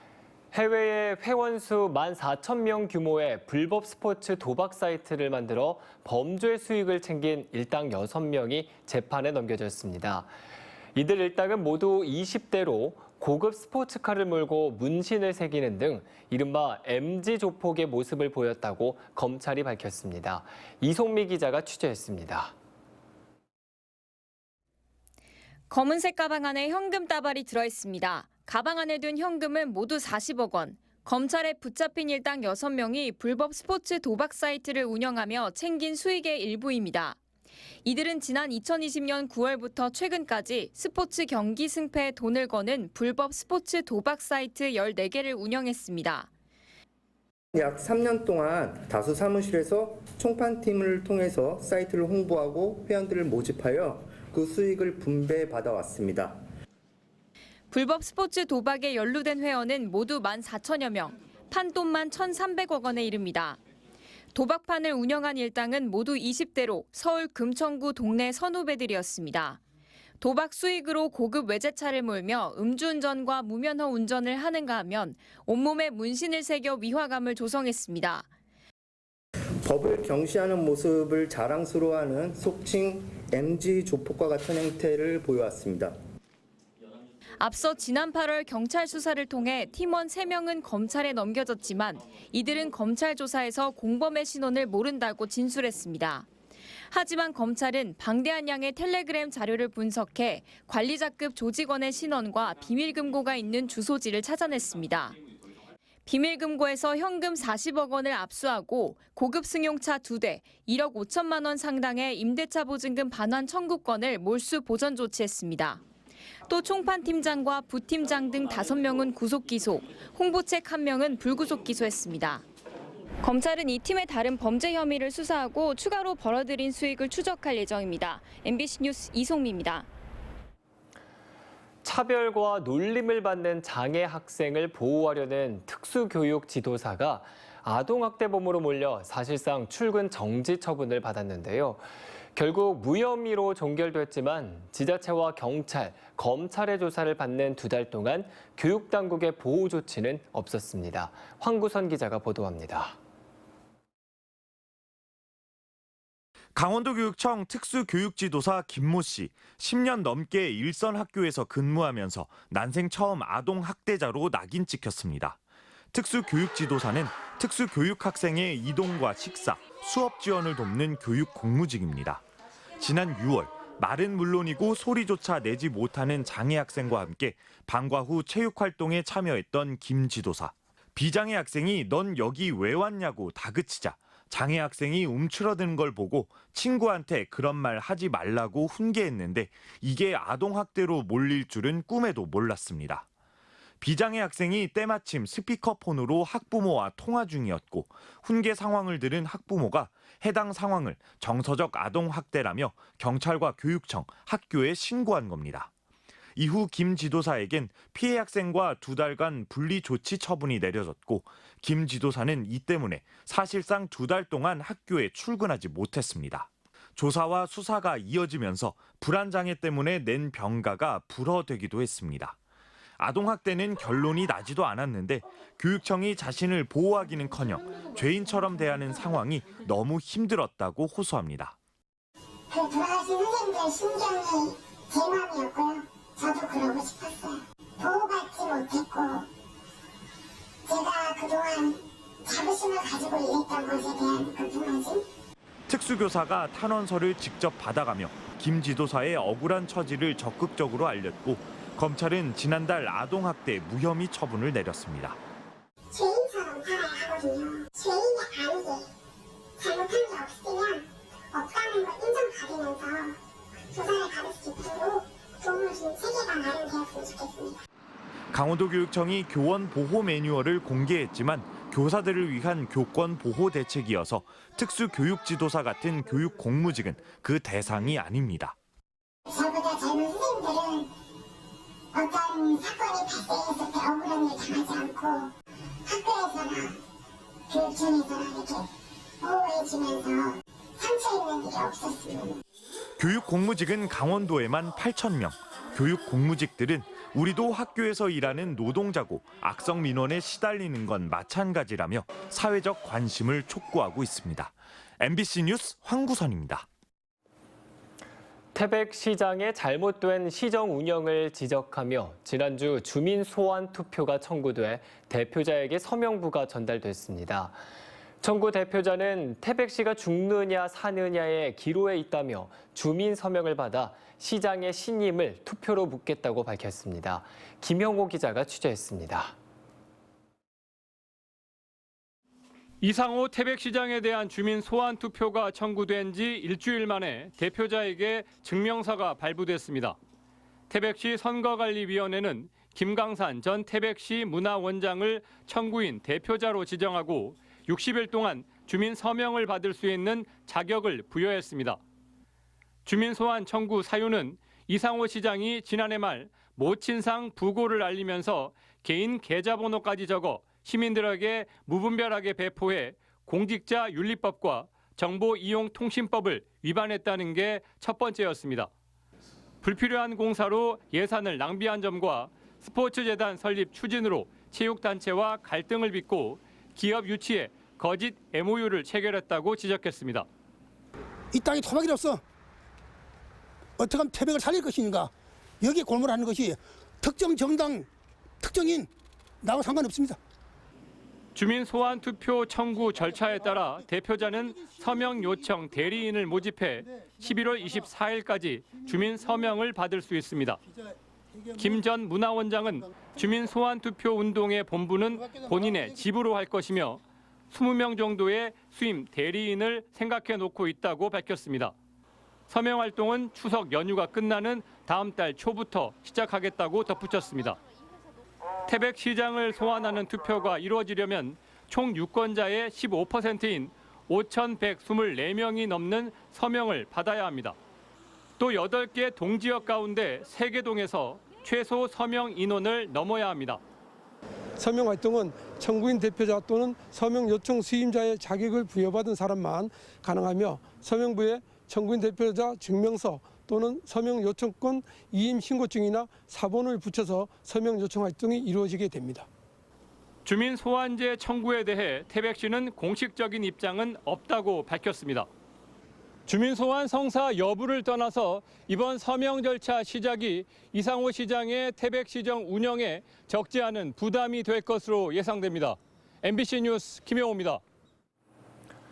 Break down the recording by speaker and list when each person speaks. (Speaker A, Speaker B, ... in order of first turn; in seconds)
Speaker A: 0.5-10.3, 10.9-22.5, 131.8-153.0, 308.6-317.6, 318.2-329.4
Speaker B: 25.7-37.2, 37.8-46.3, 57.7-63.6, 64.3-69.6, 70.2-78.3, 87.4-96.3, 96.9-105.2, 106.0-115.8, 116.5-122.4, 123.2-129.9
Speaker C: 47.5-56.4, 79.6-86.0
Speaker D: 156.6-165.4, 165.9-172.2, 172.8-193.1, 193.8-205.7, 206.4-222.4, 223.0-231.6, 245.7-255.2, 268.3-278.6, 293.0-306.7
Speaker E: 232.5-239.3, 240.7-245.1, 255.9-258.9, 259.6-263.2, 263.7-267.6, 279.3-280.9, 281.9-285.3, 285.9-286.8, 287.5-292.4
Speaker F: 332.8-340.0, 340.7-351.8, 352.9-368.7, 369.6-380.2, 391.4-400.6, 401.6-407.0, 407.5-411.7, 412.5-417.6, 418.7-427.6, 428.4-433.6, 450.2-455.3, 456.3-467.6
Speaker G: 381.3-382.2, 383.8-387.9, 388.4-388.9, 389.4-390.2, 401.4-401.8, 405.2-406.0
Speaker H: 434.6-449.2